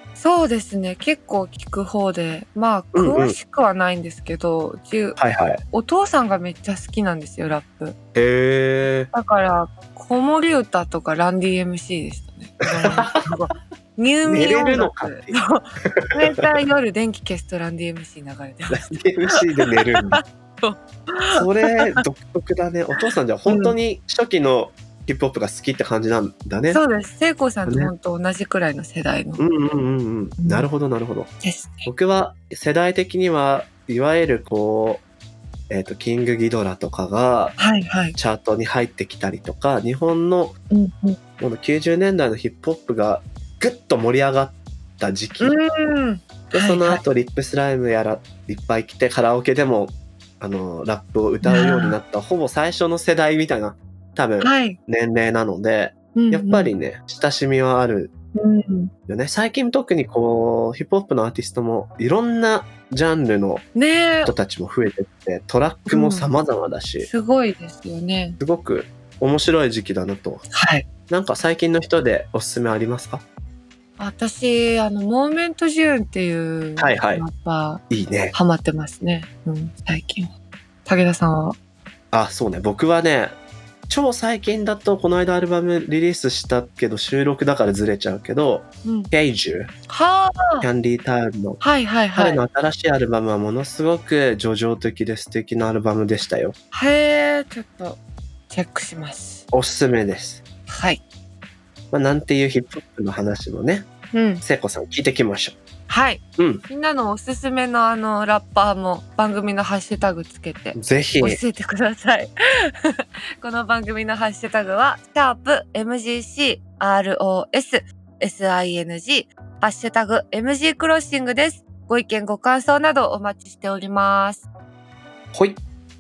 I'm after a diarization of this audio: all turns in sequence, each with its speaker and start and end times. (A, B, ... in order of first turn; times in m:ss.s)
0:00.2-0:08.0 A
0:02.9-0:03.4 B
0:05.2-0:05.6 B
0:08.2-0:09.1 B
0:09.1-0:19.1 A
0:12.6-0:13.2 B
0:14.2-0:16.4 B
0:18.7-0:20.2 B
0:19.7-0:22.0 A
0:21.3-0:26.8 B
0:23.5-0:23.8 A
0:26.7-0:29.5 A
0:27.7-0:27.9 B
0:29.4-0:31.3 B
0:30.4-0:30.7 A
0:31.4-0:31.9 A
0:31.9-0:35.0 B
0:35.7-0:37.6 B
0:37.6-0:38.2 A
0:38.2-0:40.6 B
0:40.7-0:41.2 A
0:41.4-0:45.6 B
0:45.4-0:47.0 A
0:46.5-0:58.1 B
0:51.4-0:52.0 A
0:54.4-0:54.8 A
0:56.2-0:56.7 A
0:58.4-0:58.9 A
0:59.1-1:03.7 B
1:03.8-1:04.3 A
1:04.2-1:07.1 B
1:05.9-1:06.3 A
1:07.0-1:08.4 A
1:08.4-1:10.5 B
1:10.6-1:10.9 A
1:11.1-1:13.2 B
1:14.0-1:20.3 A
1:16.8-1:17.2 B
1:17.9-1:18.4 B
1:20.9-1:21.6 A
1:22.1-1:23.4 B
1:23.9-1:29.7 B
1:28.8-1:29.1 A
1:29.9-1:30.7 A
1:30.6-1:31.6 B
1:31.6-1:32.4 A
1:32.2-1:36.6 B
1:36.7-1:39.4 A
1:39.5-1:40.4 B
1:40.7-1:41.0 A
1:41.9-1:43.9 B
1:44.1-1:44.4 A
1:44.4-1:45.6 B
1:45.9-2:04.5 A
1:46.4-1:46.6 B
1:50.8-1:51.4 B
2:05.3-2:05.6 B